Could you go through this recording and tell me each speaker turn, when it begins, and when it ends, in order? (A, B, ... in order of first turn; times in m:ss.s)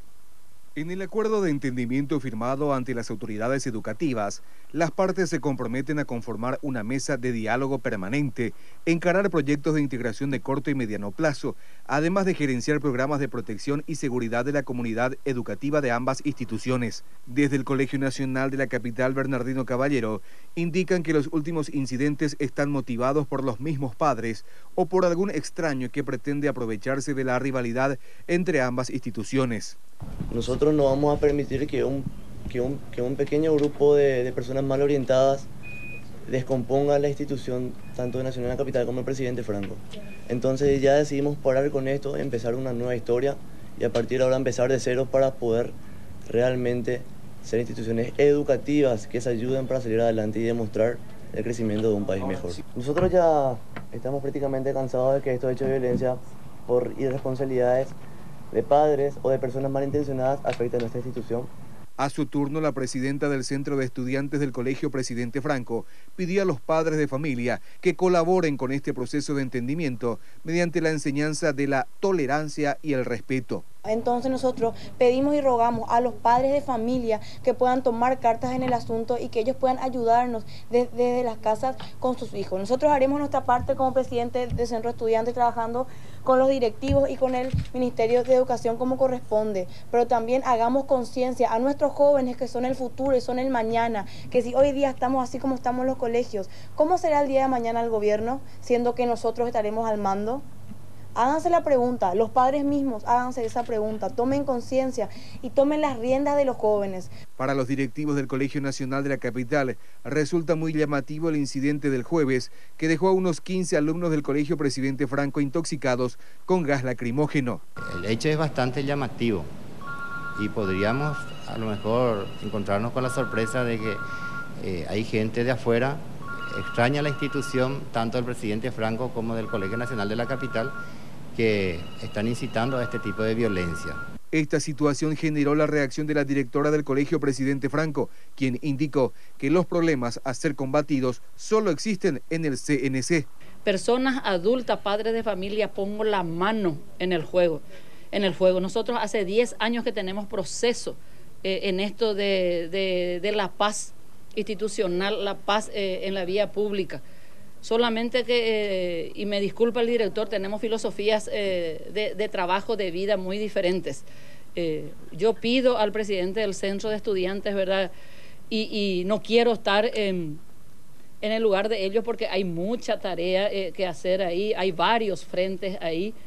0:00.8-0:29.8 A
0:30.3-0:35.5 B
0:36.3-0:57.9 B
0:58.5-1:01.5 B
1:02.0-1:13.6 A
1:13.8-1:40.4 C
1:41.2-1:47.1 C
1:47.4-1:57.6 A
1:57.9-1:59.5 D
2:00.4-2:04.0 D
2:04.6-2:10.8 D
2:11.3-2:14.0 D
2:14.3-2:23.3 A
2:23.6-2:37.0 E
2:37.6-2:47.9 E
2:48.5-2:50.4 E
2:51.2-2:56.1 E